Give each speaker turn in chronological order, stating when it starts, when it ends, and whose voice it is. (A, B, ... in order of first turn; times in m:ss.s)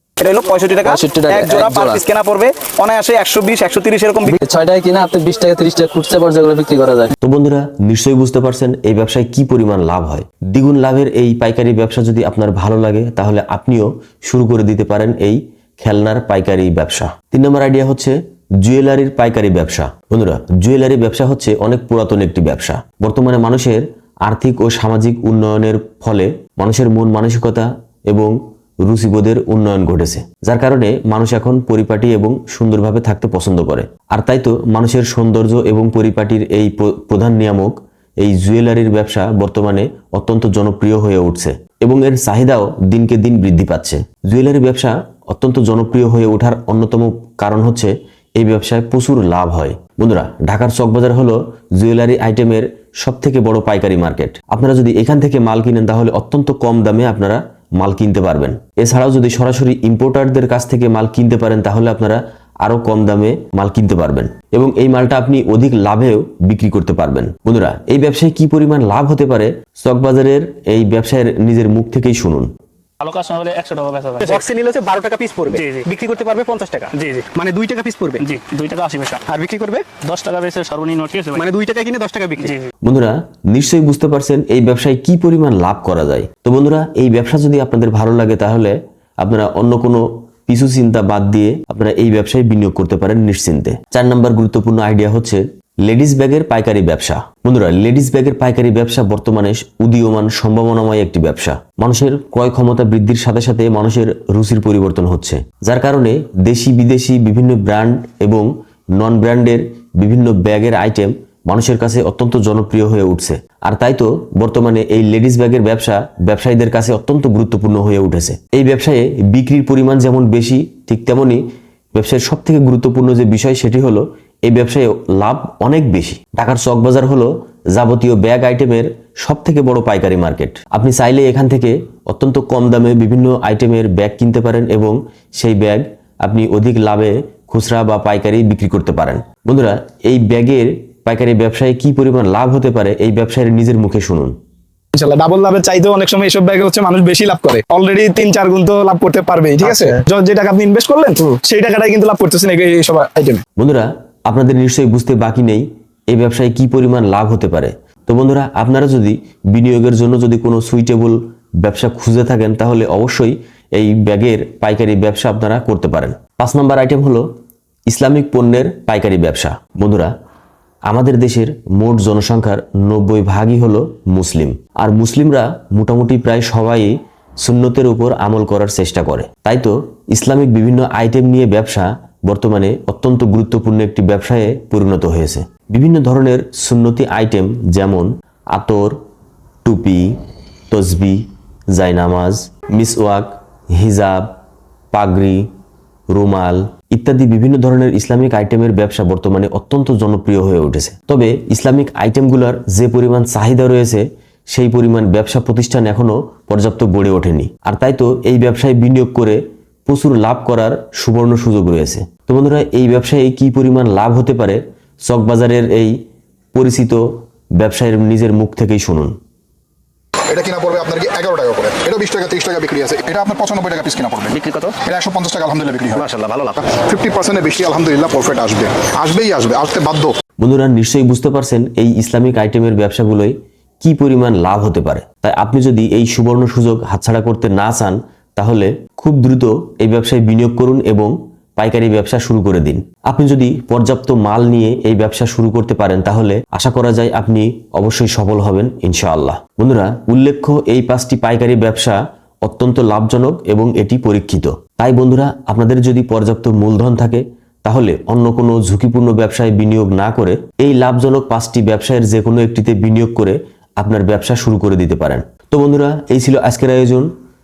0:00.2-0:07.0 A
0:00.2-0:00.9 B
0:00.9-0:02.0 C
0:01.4-0:04.3 B
0:04.3-0:07.1 C
0:07.2-1:12.5 D
1:13.0-1:14.5 E
1:14.2-1:18.2 B
1:15.5-1:15.9 E
1:16.9-1:17.3 E
1:18.2-1:19.3 E
1:19.3-1:19.9 B
1:20.0-1:21.4 E
1:21.5-1:22.5 B
1:22.4-1:22.7 E
1:22.8-2:01.4 D
2:01.9-2:24.3 D
2:24.9-2:33.4 F
2:33.6-2:47.2 D
2:47.9-2:50.1 D
2:50.9-3:09.0 D
3:09.6-3:14.3 D
3:14.9-3:15.5 D
3:16.1-3:35.9 D
3:36.5-3:37.1 D
3:37.6-3:39.1 D
3:40.3-3:50.1 G
3:50.4-4:27.1 D